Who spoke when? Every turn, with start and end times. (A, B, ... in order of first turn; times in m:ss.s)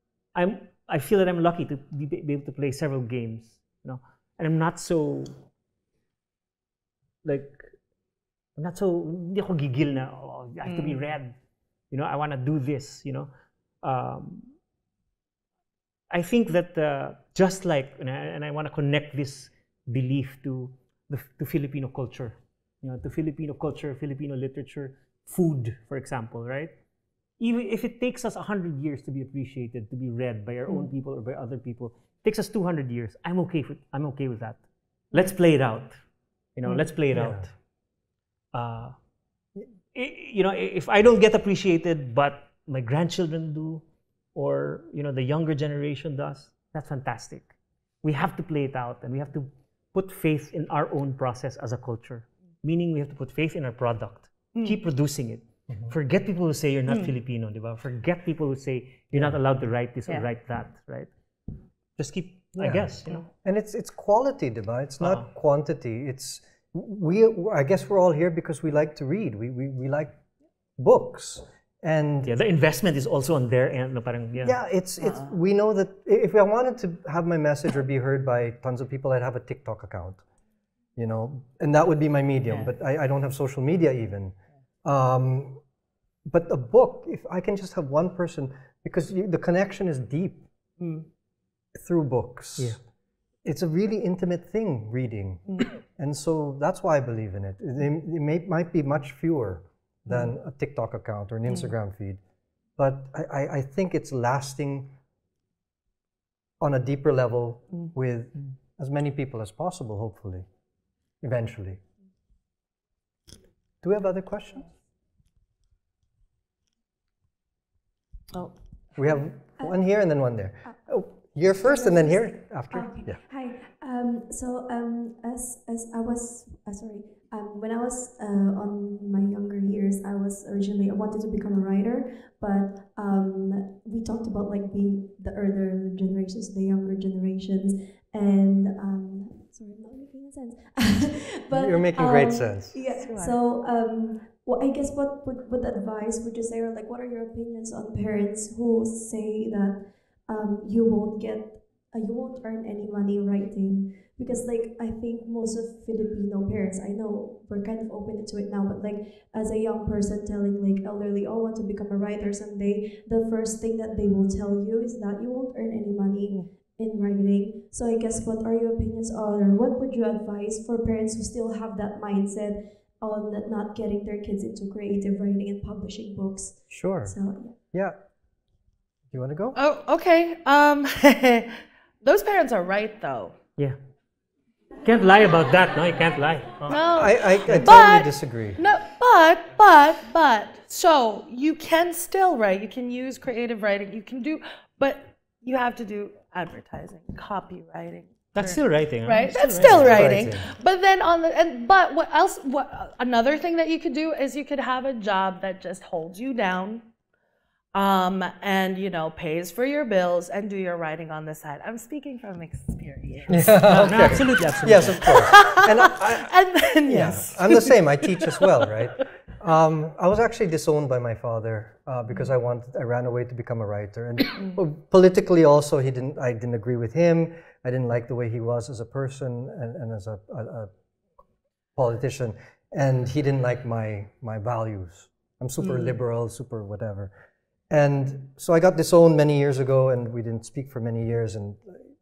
0:00.4-0:05.4 A
0:07.2-0:07.7 A
0:08.6-0:11.4 A
0:10.6-0:11.0 B
0:11.9-0:13.3 A
0:13.8-0:14.6 A
0:16.1-0:26.7 A
0:27.4-0:36.0 A
0:36.6-0:37.5 A
0:37.1-0:37.4 C
0:38.5-0:39.0 A
0:39.9-0:43.8 A
0:44.4-1:01.1 A
0:54.5-0:54.8 B
0:56.9-0:57.1 B
1:02.0-1:03.2 A
1:02.6-1:10.2 C
1:10.8-1:12.3 C
1:12.3-1:14.6 A
1:14.4-1:20.2 C
1:15.0-1:15.3 B
1:21.0-1:25.6 C
1:26.3-1:30.4 C
1:30.8-1:31.1 B
1:31.8-1:32.8 C
1:33.4-1:42.2 C
1:42.8-1:45.0 C
1:46.6-1:50.5 C
1:51.2-1:51.8 C
1:53.8-1:54.7 C
1:59.0-2:03.2 C
2:01.6-2:57.6 D
2:21.5-2:22.8 C
2:22.9-2:23.4 B
2:56.7-2:57.2 C
2:57.7-2:58.0 C
2:59.1-2:59.6 C
2:59.6-3:03.4 B
3:04.8-3:06.8 A
3:06.7-3:26.9 B
3:06.9-3:08.6 C
3:18.3-3:20.1 A
3:19.5-3:20.5 C
3:27.7-3:38.5 B
3:33.3-3:50.7 C
3:33.6-3:35.1 A
3:51.8-3:57.1 C
3:55.6-3:55.9 B
3:57.7-4:01.8 C